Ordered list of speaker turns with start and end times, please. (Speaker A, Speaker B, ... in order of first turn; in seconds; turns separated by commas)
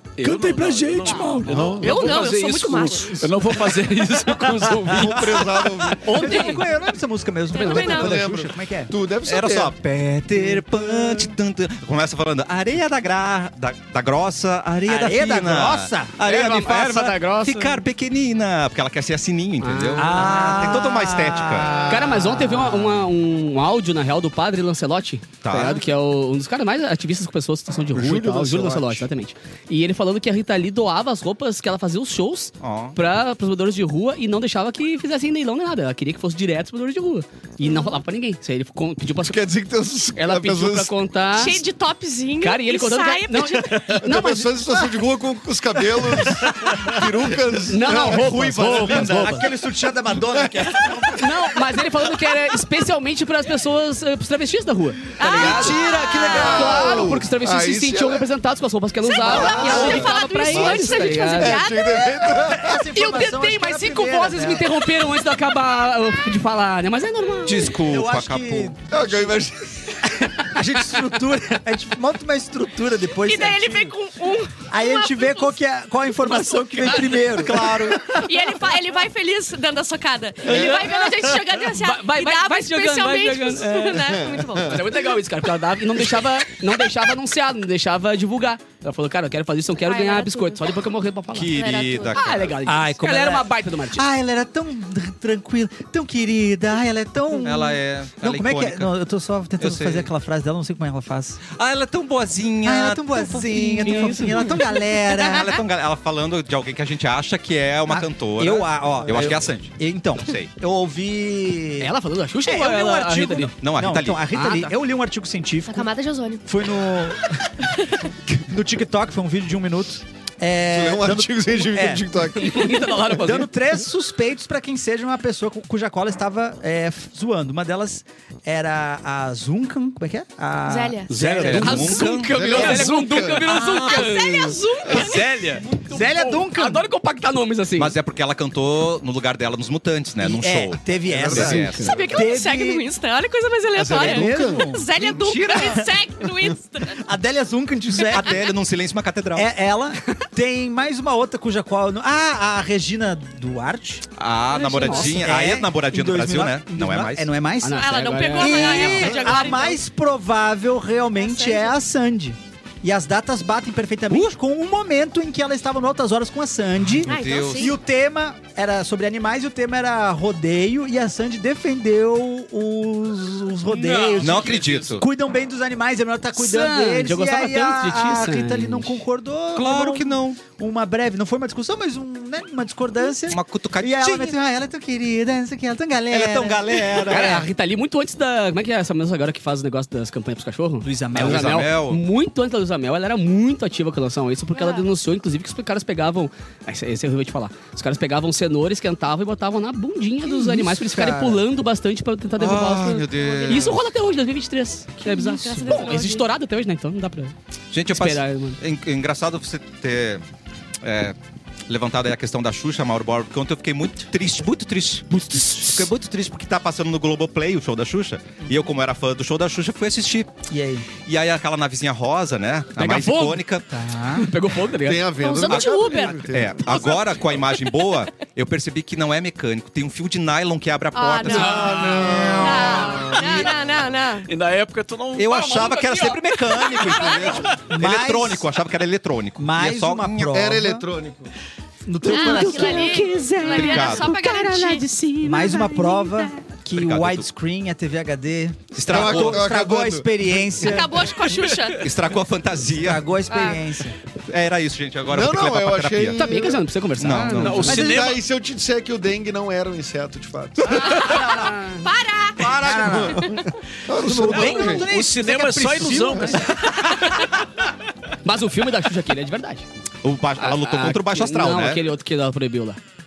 Speaker A: 0.2-5.5, Speaker B: 0.2-1.7, Speaker C: 1.0-1.5, Speaker D: 1.5-2.1, Speaker E: 1.8-3.3, Speaker B: 4.7-5.2, Speaker D: 4.9-6.2, Speaker C: 6.0-6.6, Speaker B: 6.0-8.9, Speaker E: 6.2-6.6, Speaker E: 7.5-8.2, Speaker C: 7.5-8.0, Speaker D: 7.7-9.7, Speaker F: 9.2-22.0, Speaker B: 10.3-11.3, Speaker B: 14.8-16.2, Speaker C: 16.2-17.8, Speaker C: 19.6-20.8, Speaker B: 20.0-23.0, Speaker C: 21.9-39.5, Speaker F: 25.4-25.8, Speaker D: 27.9-29.1, Speaker F: 32.6-33.0, Speaker E: 37.6-37.9, Speaker D: 39.2-40.9, Speaker C: 40.1-41.6, Speaker E: 41.3-44.0, Speaker C: 42.4-44.7, Speaker D: 43.9-49.3, Speaker B: 46.0-47.1, Speaker C: 47.7-49.5, Speaker B: 47.9-51.6, Speaker D: 50.3-50.9, Speaker C: 51.1-61.6, Speaker E: 55.2-57.1, Speaker B: 55.2-57.0, Speaker F: 55.5-55.7, Speaker D: 55.8-58.3, Speaker E: 59.0-62.1, Speaker B: 59.2-60.0, Speaker D: 59.2-62.8, Speaker B: 61.8-64.9, Speaker C: 62.9-67.7, Speaker F: 67.4-68.8, Speaker B: 67.6-69.4, Speaker D: 68.9-70.0, Speaker B: 70.0-74.0, Speaker E: 73.2-75.5, Speaker B: 74.6-78.2, Speaker C: 76.8-77.2, Speaker F: 77.3-78.2, Speaker E: 78.1-85.0, Speaker C: 80.4-94.0, Speaker D: 80.5-80.9, Speaker D: 84.0-84.7, Speaker E: 89.8-90.8, Speaker F: 91.3-92.5, Speaker E: 91.5-92.5, Speaker B: 92.6-101.4, Speaker F: 97.4-98.9, Speaker F: 99.6-100.1, Speaker F: 101.5-104.0, Speaker B: 102.6-105.6, Speaker C: 103.5-104.6, Speaker F: 105.1-110.5, Speaker B: 107.9-111.9, Speaker C: 111.8-113.5, Speaker B: 112.4-115.9, Speaker F: 113.6-114.2, Speaker C: 114.3-114.7, Speaker E: 115.7-116.4, Speaker B: 116.4-117.7, Speaker B: 118.3-122.1, Speaker D: 120.7-122.9, Speaker C: 122.3-123.5, Speaker B: 123.0-132.0, Speaker E: 130.7-131.1, Speaker A: 131.1-133.3, Speaker F: 131.1-132.8, Speaker C: 131.4-137.9, Speaker D: 132.2-133.5, Speaker E: 133.5-135.3, Speaker A: 134.9-135.6, Speaker B: 135.9-136.9, Speaker F: 137.8-142.0, Speaker B: 140.2-142.8, Speaker D: 141.1-142.1, Speaker C: 141.4-141.8, Speaker E: 141.8-147.0, Speaker D: 143.7-145.1, Speaker B: 143.8-145.9, Speaker B: 147.0-148.4, Speaker F: 148.1-149.5, Speaker B: 149.3-154.0, Speaker F: 154.2-157.3, Speaker C: 154.5-155.2, Speaker E: 154.7-155.1, Speaker B: 154.9-187.4, Speaker C: 157.6-159.2, Speaker E: 157.8-159.8, Speaker E: 161.2-161.7, Speaker F: 167.0-167.7, Speaker E: 167.0-167.8, Speaker A: 173.8-174.9, Speaker F: 174.2-175.0, Speaker C: 176.3-179.0, Speaker F: 179.5-180.4, Speaker F: 183.3-184.3, Speaker F: 186.1-187.5, Speaker C: 187.0-207.3, Speaker B: 190.8-191.7, Speaker F: 191.1-192.0, Speaker E: 194.5-194.9, Speaker B: 200.2-201.4, Speaker F: 202.3-203.8, Speaker E: 203.1-203.7, Speaker B: 205.0-206.0, Speaker E: 205.1-206.2, Speaker F: 207.7-210.2, Speaker C: 207.9-208.6, Speaker F: 210.8-211.2, Speaker F: 211.7-220.3, Speaker B: 220.5-220.9, Speaker F: 221.0-223.7, Speaker C: 222.8-223.4, Speaker B: 223.7-224.3, Speaker C: 224.1-225.1, Speaker D: 224.8-226.9, Speaker E: 225.2-227.0, Speaker F: 225.5-233.5, Speaker E: 230.9-234.3, Speaker C: 231.3-231.9, Speaker D: 231.3-233.5, Speaker B: 231.8-232.6, Speaker A: 234.3-235.7, Speaker F: 235.2-240.3, Speaker C: 235.3-237.4, Speaker E: 237.0-237.2, Speaker B: 237.7-238.5, Speaker B: 239.4-240.9, Speaker D: 240.3-241.3, Speaker B: 241.8-244.4, Speaker E: 242.0-246.3, Speaker C: 242.2-244.9, Speaker F: 243.4-244.1, Speaker B: 245.2-251.1, Speaker F: 246.7-247.2, Speaker F: 248.7-249.4, Speaker D: 248.9-250.5, Speaker E: 250.6-251.9, Speaker F: 251.8-253.0, Speaker B: 252.7-253.9, Speaker E: 253.3-253.6, Speaker F: 254.3-256.2, Speaker D: 255.1-256.6, Speaker C: 256.1-257.8, Speaker F: 257.0-258.0, Speaker A: 257.4-258.2, Speaker D: 257.6-260.9, Speaker B: 257.7-258.0, Speaker E: 260.7-263.5, Speaker B: 261.0-261.5, Speaker C: 261.3-261.8, Speaker B: 262.4-263.4, Speaker F: 262.4-263.0, Speaker D: 262.5-264.9, Speaker B: 263.9-266.7, Speaker A: 264.3-266.6, Speaker C: 268.2-269.6, Speaker F: 270.0-271.8, Speaker C: 270.4-272.8